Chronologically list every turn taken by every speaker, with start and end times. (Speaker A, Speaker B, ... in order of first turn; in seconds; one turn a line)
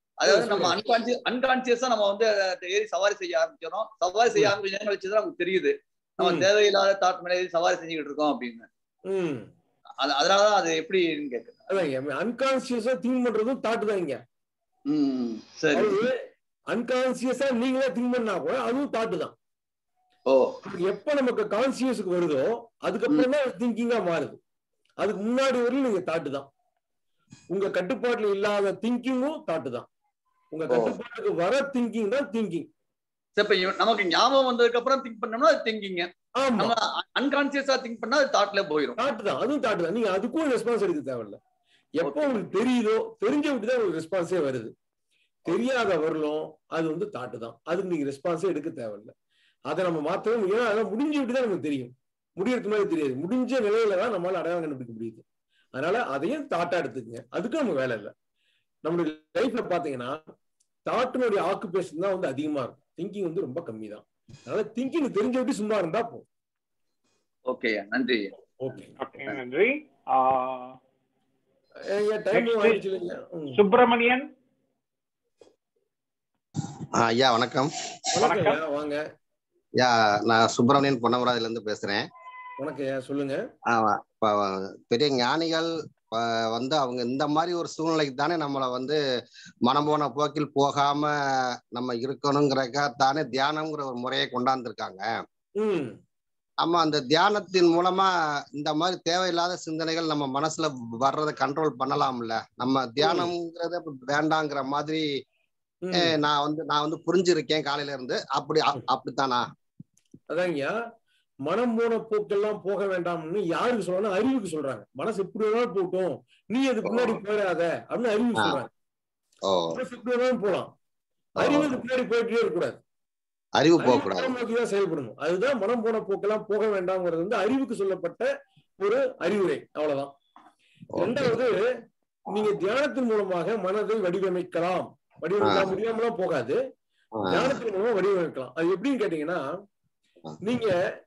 Speaker A: 0.2-8.7
Speaker B: 0.3-0.8
Speaker B: 6.2-6.5
Speaker B: 9.1-9.5
Speaker A: 10.0-11.7
Speaker B: 11.7-14.2
Speaker A: 14.9-16.0
Speaker B: 15.7-16.2
Speaker B: 16.7-19.3
Speaker A: 20.3-20.6
Speaker B: 20.6-24.4
Speaker B: 25.0-26.5
Speaker B: 27.5-29.9
Speaker B: 30.5-32.7
Speaker A: 30.7-31.0
Speaker A: 33.4-36.1
Speaker B: 36.4-36.7
Speaker A: 36.6-39.0
Speaker B: 39.0-41.4
Speaker B: 42.0-44.7
Speaker A: 42.0-42.4
Speaker B: 45.5-49.1
Speaker B: 49.7-55.2
Speaker B: 55.8-58.1
Speaker B: 58.9-60.2
Speaker B: 60.9-66.2
Speaker A: 67.5-68.3
Speaker B: 68.6-68.9
Speaker C: 69.0-70.8
Speaker B: 71.9-73.6
Speaker C: 72.3-72.8
Speaker C: 73.5-74.3
Speaker D: 77.0-77.7
Speaker B: 78.1-79.0
Speaker C: 78.2-78.6
Speaker D: 79.8-82.0
Speaker B: 82.6-83.4
Speaker D: 83.7-89.0
Speaker D: 89.7-91.1
Speaker D: 91.7-95.1
Speaker B: 95.6-96.0
Speaker D: 96.6-105.0
Speaker B: 103.0-103.3
Speaker B: 105.8-106.1
Speaker D: 106.0-109.4
Speaker B: 110.3-110.8
Speaker B: 111.5-118.7
Speaker D: 116.8-117.2
Speaker D: 118.4-118.7
Speaker D: 119.5-119.8
Speaker B: 119.7-120.7
Speaker D: 121.4-121.8
Speaker B: 121.4-122.8
Speaker D: 123.6-124.3
Speaker B: 123.8-128.3
Speaker B: 128.8-130.1
Speaker D: 131.0-131.4
Speaker B: 131.0-131.6
Speaker B: 132.3-136.6
Speaker D: 135.4-135.7
Speaker D: 137.2-137.6
Speaker B: 137.3-139.4
Speaker B: 140.4-140.8